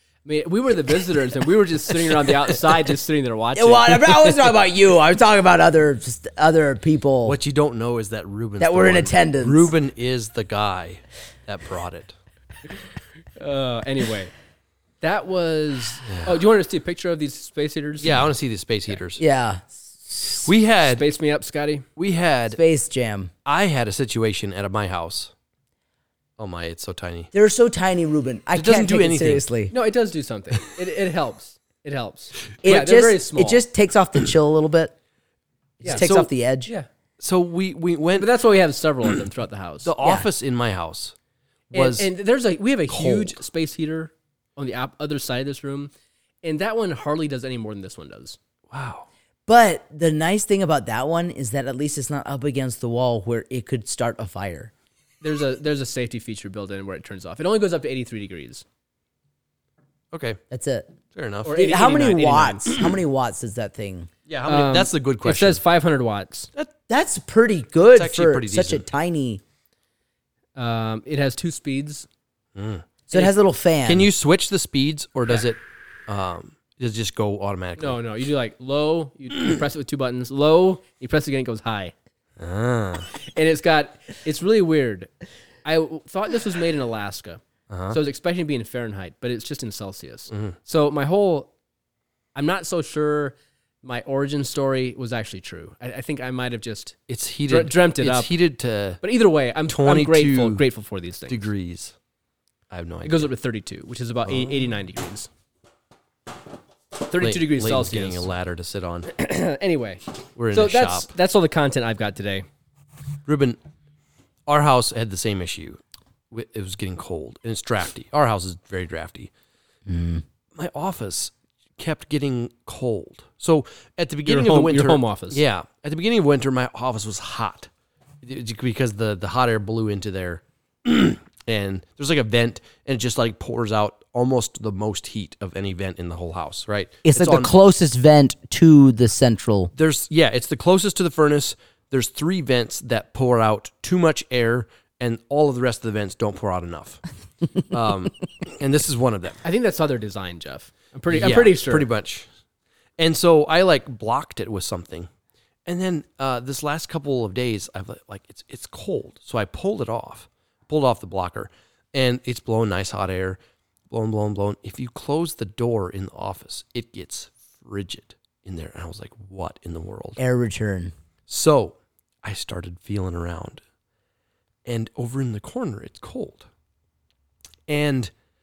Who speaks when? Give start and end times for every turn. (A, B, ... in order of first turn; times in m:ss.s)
0:00.2-0:04.5 A
0:03.6-0:07.4 B
0:07.2-0:12.2 C
0:08.6-0:09.7 B
0:13.4-0:14.3 A
0:15.0-0:18.3 A
0:16.1-0:16.4 C
0:18.0-0:19.2 C
0:19.2-0:20.5 B
0:20.4-0:21.0 C
0:20.8-0:21.8 A
0:22.0-0:22.6 C
0:22.5-0:23.3 B
0:23.5-0:25.3 C
0:26.4-0:27.3 C
0:27.3-0:29.7 B
0:28.6-0:29.5 C
0:29.7-0:33.6 A
0:32.6-0:34.9 B
0:35.8-0:36.7 B
0:35.8-0:36.3 C
0:37.2-0:38.3 C
0:38.2-0:39.9 A
0:39.8-0:41.1 C
0:40.0-0:40.3 B
0:41.7-0:42.1 C
0:41.7-0:45.9 A
0:42.9-0:43.4 C
0:46.4-0:48.4 A
0:48.7-0:49.1 C
0:49.5-0:54.7 B
0:55.2-0:58.6 A
1:00.1-1:00.4 C
1:00.5-1:00.9 B
1:01.1-1:01.6 C
1:01.4-1:02.7 A
1:01.5-1:04.1 B
1:02.7-1:03.0 C
1:04.3-1:05.6 C
1:04.5-1:06.5 A
1:06.9-1:09.4 B
1:07.9-1:08.8 C
1:10.6-1:12.1 A
1:12.6-1:12.8 C
1:13.1-1:14.1 B
1:13.9-1:18.0 C
1:17.8-1:21.9 A
1:22.4-1:23.1 C
1:23.2-1:25.1 A
1:25.6-1:31.5 A
1:27.7-1:28.0 C
1:32.4-1:37.0 A
1:37.1-1:39.0 C
1:37.5-1:38.3 A
1:39.0-1:41.5 A
1:39.7-1:40.6 C
1:41.3-1:42.0 C
1:42.7-1:43.3 C
1:43.0-1:45.3 A
1:44.3-1:44.6 C
1:47.0-1:48.3 A
1:47.2-1:49.1 C
1:49.1-1:52.5 A
1:50.4-1:51.1 C
1:53.3-1:53.6 C
1:54.5-1:55.8 C
1:56.3-1:59.3 C
1:59.9-2:00.2 B
2:00.6-2:07.7 C
2:04.3-2:05.4 A
2:08.2-2:17.5 C
2:17.1-2:19.7 B
2:19.8-2:27.0 C
2:27.6-2:29.4 C
2:29.4-2:31.9 A
2:31.1-2:32.3 C
2:33.0-2:35.1 C
2:35.7-2:43.4 C
2:43.9-2:50.2 C
2:50.2-2:50.9 B
2:51.3-2:53.6 C
2:54.7-2:56.5 C
2:57.7-2:58.1 C